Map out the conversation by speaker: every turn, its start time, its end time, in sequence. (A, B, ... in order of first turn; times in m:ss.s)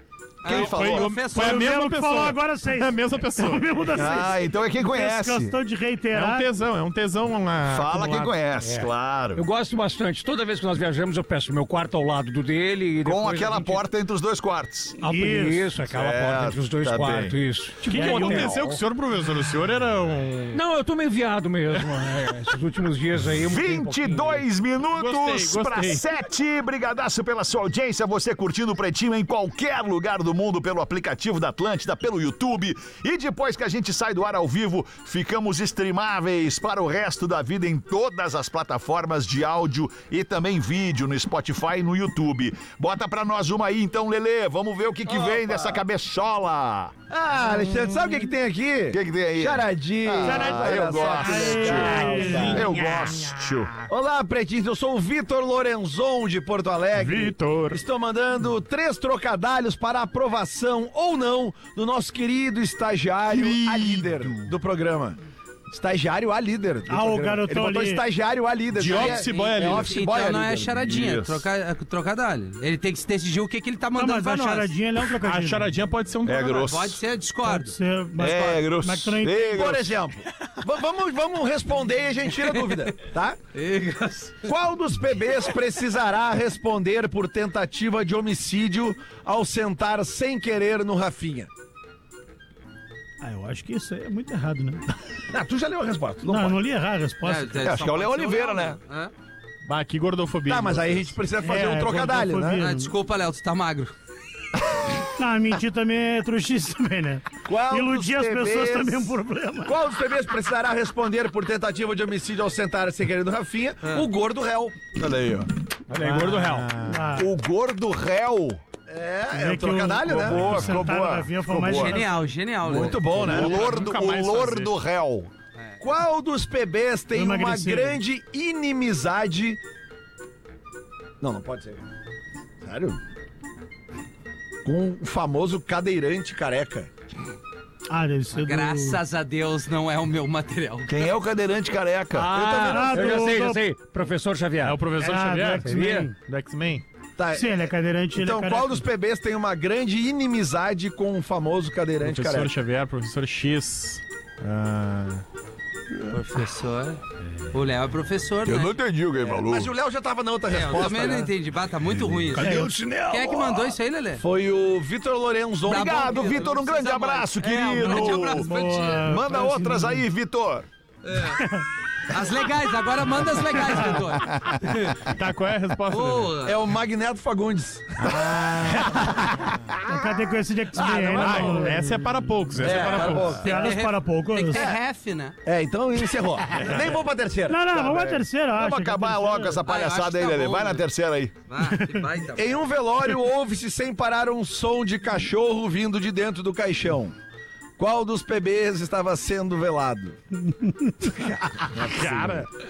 0:00.4-0:01.7 A
0:00.4-0:01.1 B
0:00.5-0:03.9 C
0:01.3-0:06.5 D
0:03.9-0:05.6 B
0:06.1-0:08.3 C
0:07.6-0:09.5 B
0:08.6-0:13.8 E
0:13.0-0:15.0 B
0:15.0-0:15.7 D
0:15.0-0:18.8 E
0:15.9-0:17.4 B
0:17.8-0:20.6 C
0:17.9-0:18.6 D
0:20.5-0:24.4 E
0:23.4-0:47.0 B
0:24.9-0:26.0 C
0:45.1-0:45.8 F
0:47.1-0:52.7 F
0:48.9-0:52.0 B
0:50.2-0:53.2 C
0:51.2-0:52.6 D
0:52.5-0:53.8 B
0:53.9-1:05.2 F
0:57.0-0:57.8 C
1:03.3-1:04.5 C
1:03.3-1:03.8 B
1:05.7-1:10.8 F
1:06.9-1:08.0 D
1:08.8-1:09.9 C
1:08.9-1:14.8 A
1:10.8-1:11.4 B
1:14.0-1:15.7 D
1:15.2-1:16.8 C
1:16.2-1:17.0 B
1:16.6-1:17.7 A
1:17.4-1:19.6 D
1:18.2-1:19.9 B
1:19.5-1:23.4 F
1:22.4-1:22.9 A
1:23.5-1:24.5 A
1:24.4-1:31.5 F
1:33.2-1:34.8 D
1:35.3-1:36.6 F
1:36.2-1:37.5 D
1:37.2-1:39.1 A
1:37.6-1:38.8 B
1:39.7-1:41.2 C
1:40.5-1:42.6 F
1:41.4-1:42.9 D
1:42.6-1:43.9 A
1:45.2-1:49.8 D
1:47.5-1:54.9 F
1:53.8-1:54.1 A
1:54.9-1:55.5 B
1:55.9-1:56.7 E
1:56.0-1:57.1 C
1:56.8-1:57.3 D
1:57.2-1:58.6 B
1:58.9-2:00.6 F
1:59.3-2:02.1 D
2:00.0-2:02.0 B
2:01.7-2:03.2 A
2:02.6-2:03.7 F
2:02.9-2:04.7 C
2:03.2-2:05.3 B
2:05.6-2:05.8 A
2:05.8-2:09.6 F
2:07.1-2:08.0 D
2:11.2-2:11.8 F
2:12.6-2:13.0 F
2:14.6-2:16.9 F
2:17.9-2:19.0 D
2:18.3-2:21.1 A
2:20.9-2:22.3 B
2:22.1-2:24.8 E
2:22.3-2:23.3 F
2:22.6-2:23.6 D
2:24.6-2:26.8 C
2:25.0-2:26.1 D
2:25.6-2:26.1 E
2:27.2-2:32.5 F
2:27.3-2:28.8 D
2:32.0-2:35.2 C
2:36.1-2:37.0 A
2:37.5-2:38.7 A
2:38.4-2:39.7 B
2:39.2-2:41.3 F
2:40.5-2:44.2 A
2:42.2-2:46.2 F
2:42.4-2:42.7 D
2:45.6-2:49.1 A
2:45.7-2:48.5 B
2:47.8-2:50.0 D
2:49.0-2:50.7 B
2:51.0-2:51.5 A
2:51.4-2:51.6 D
2:52.1-2:55.1 A
2:55.1-2:56.4 C
2:55.9-2:56.6 A
2:56.4-2:59.5 F
2:58.0-2:58.8 C
2:59.8-3:02.0 D
3:00.7-3:01.8 F
3:01.2-3:03.4 C
3:02.6-3:03.7 F
3:02.7-3:05.4 A
3:03.4-3:04.6 D
3:04.5-3:04.8 F
3:05.4-3:08.3 F
3:07.5-3:09.6 D
3:08.5-3:11.3 B
3:09.6-3:10.8 A
3:11.5-3:12.7 A
3:12.3-3:17.2 F
3:17.8-3:20.2 F
3:20.5-3:21.1 D
3:21.0-3:22.5 F
3:21.9-3:22.5 C